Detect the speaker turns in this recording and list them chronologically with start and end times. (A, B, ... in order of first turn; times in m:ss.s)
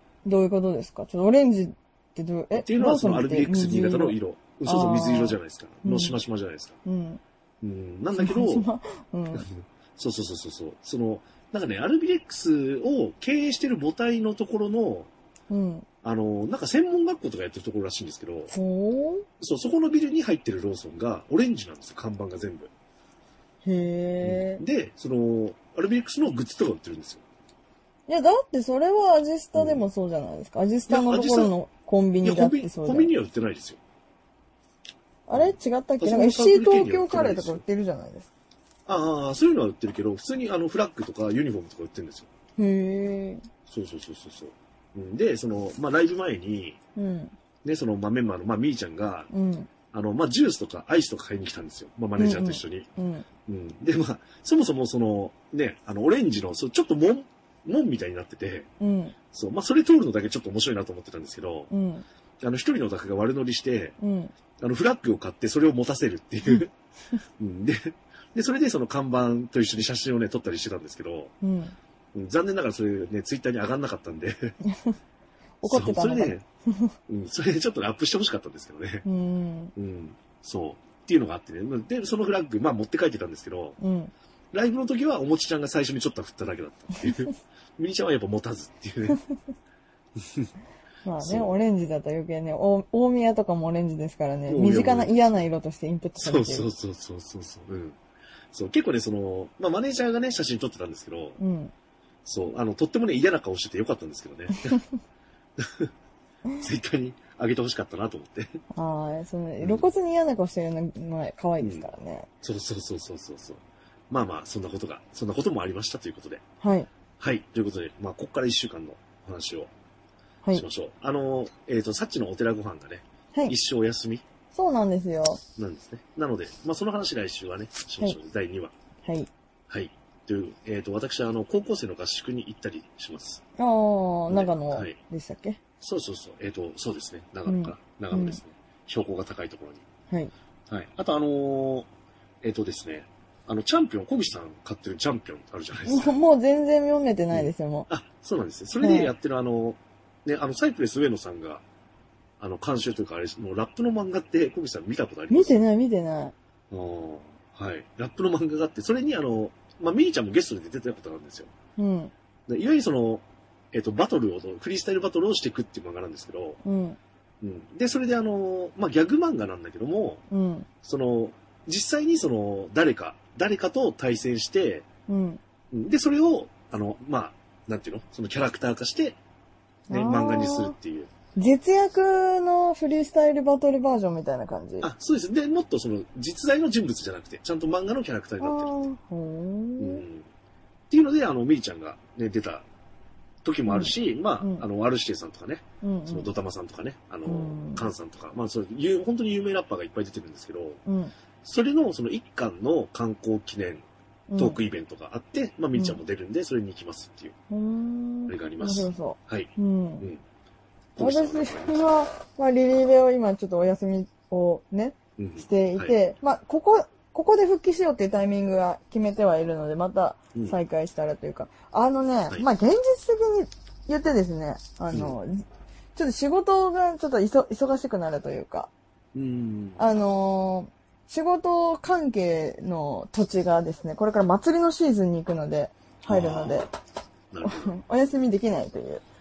0:00.2-0:06.2 A
0:02.5-0:06.8 B
0:06.8-0:07.2 A
0:07.6-0:08.7 B
0:08.1-0:09.5 A
0:09.3-0:15.1 B
0:15.5-0:15.9 A
0:16.0-0:18.5 B
0:18.5-0:19.2 A
0:19.4-0:22.7 B
0:23.6-0:24.6 A
0:24.2-0:27.2 B
0:28.1-0:33.1 A
0:29.5-0:29.9 B
0:30.9-0:31.5 B
0:32.2-0:33.8 B
0:35.3-0:38.3 A
0:35.3-0:37.6 B
0:38.8-0:42.3 B
0:42.6-0:43.4 A
0:43.7-0:46.8 B
0:47.0-0:47.3 A
0:47.6-0:49.3 B
0:49.3-0:49.7 A
0:49.9-0:52.9 B
0:52.2-0:53.2 A
0:53.5-0:58.7 B
0:58.8-0:59.1 A
0:59.3-1:01.7 B
1:01.7-1:02.0 A
1:02.4-1:03.9 B
1:04.0-1:04.3 A
1:04.6-1:06.7 B
1:07.4-1:11.3 B
1:11.4-1:11.8 A
1:12.1-1:14.6 B
1:14.6-1:15.0 A
1:15.6-1:16.9 A
1:15.6-1:16.4 B
1:17.1-1:19.0 B
1:19.0-1:19.7 A
1:19.8-1:23.8 B
1:23.8-1:24.1 A
1:24.5-1:29.2 B
1:30.2-1:30.5 B
1:31.0-1:36.7 A
1:31.2-1:31.6 B
1:34.5-1:35.2 B
1:36.2-1:38.0 B
1:38.5-1:41.4 B
1:41.4-1:41.7 A
1:42.2-1:44.8 B
1:45.6-1:45.9 B
1:46.6-1:48.6 B
1:48.7-1:52.3 A
1:49.6-1:49.9 B
1:51.6-1:51.9 B
1:52.4-1:56.4 B
1:56.6-1:56.9 A
1:57.2-1:59.7 B
2:00.5-2:04.2 B
2:04.5-2:05.4 A
2:05.6-2:08.7 B
2:09.0-2:09.3 A
2:09.7-2:13.4 B
2:13.6-2:15.6 A
2:14.3-2:15.0 B
2:15.8-2:19.8 B
2:17.4-2:18.4 A
2:20.7-2:21.9 B
2:22.4-2:26.2 B
2:25.9-2:27.9 A
2:27.3-2:31.6 B
2:28.8-2:29.1 A
2:32.4-2:35.6 B
2:35.3-2:36.3 A
2:36.7-2:41.5 B
2:41.8-2:42.1 A
2:42.5-2:46.6 B
2:46.6-2:47.0 A
2:47.4-2:50.2 B
2:50.3-2:50.7 A
2:50.8-2:54.8 B
2:55.1-2:55.4 A
2:55.7-2:59.2 B
2:59.9-3:00.8 A
2:59.9-3:01.1 B
3:01.4-3:04.9 A
3:04.8-3:08.7 B
3:08.4-3:10.0 A
3:09.8-3:10.3 B
3:10.9-3:12.6 B
3:13.4-3:20.8 B
3:13.7-3:14.6 A
3:15.8-3:16.3 A
3:17.2-3:17.9 A
3:20.8-3:21.1 A
3:21.4-3:23.8 B
3:24.3-3:24.6 A
3:24.4-3:27.3 B
3:25.7-3:26.0 A
3:27.5-3:30.1 A
3:28.3-3:30.2 B
3:31.0-3:31.9 B
3:31.0-3:48.7 A
3:35.2-3:35.9 B
3:49.1-3:49.8 B
3:49.8-3:56.7 A
3:56.0-3:56.6 B
3:57.3-3:57.7 B
3:57.4-3:59.0 A